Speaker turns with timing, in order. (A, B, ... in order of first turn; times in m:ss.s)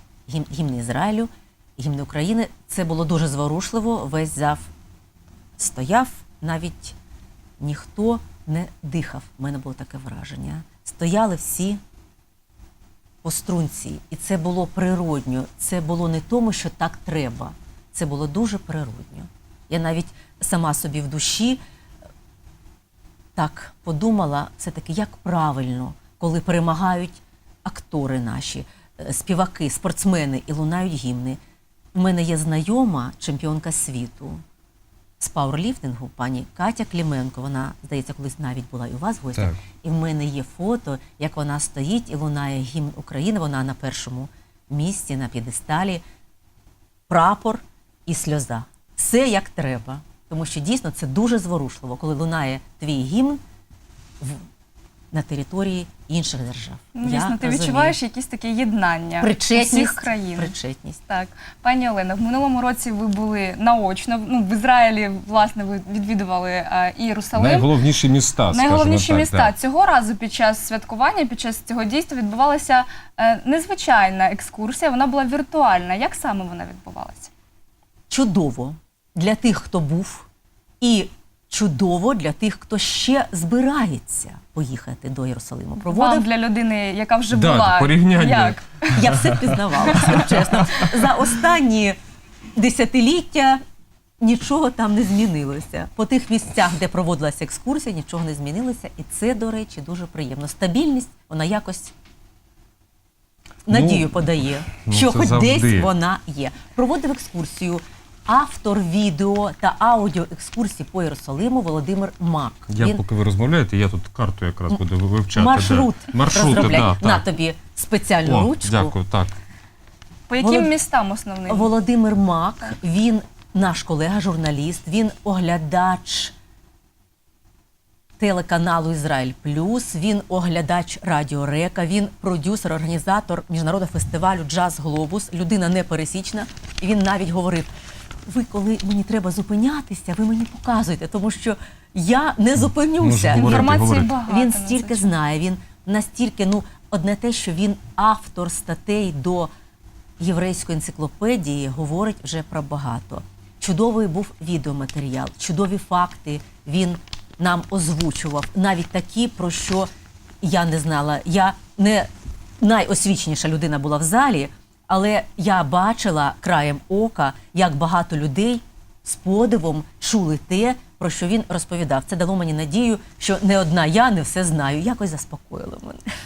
0:00.3-0:04.7 A
0:05.6-0:07.0 A
0:07.6-0:11.8 A
0:13.2-0:21.6 A
0:23.4-0:31.4 A
0:31.9-0:34.4 A
0:35.2-0:46.0 A
0:47.1-0:53.4 A
0:54.2-0:54.5 A
0:55.1-0:58.0 A
0:57.0-1:00.5 B
0:59.2-1:01.0 A
1:01.1-1:07.7 B
1:07.3-1:09.5 C
1:08.5-1:17.3 B
1:18.1-1:20.3 A
1:20.8-1:26.3 A
1:25.9-1:29.0 B
1:27.3-1:30.9 C
1:28.9-1:32.0 A
1:29.9-1:30.3 B
1:32.6-1:33.6 A
1:34.2-1:41.9 A
1:43.7-1:53.0 A
1:43.7-1:45.9 C
1:52.7-1:57.3 C
1:55.4-1:59.0 A
1:58.2-1:59.4 C
2:00.3-2:01.7 B
2:00.4-2:00.7 A
2:01.5-2:06.3 A
2:08.2-2:17.7 A
2:18.3-2:29.5 A
2:23.0-2:24.1 C
2:23.4-2:25.1 B
2:30.2-2:39.9 A
2:40.4-2:42.1 A
2:42.6-2:56.0 A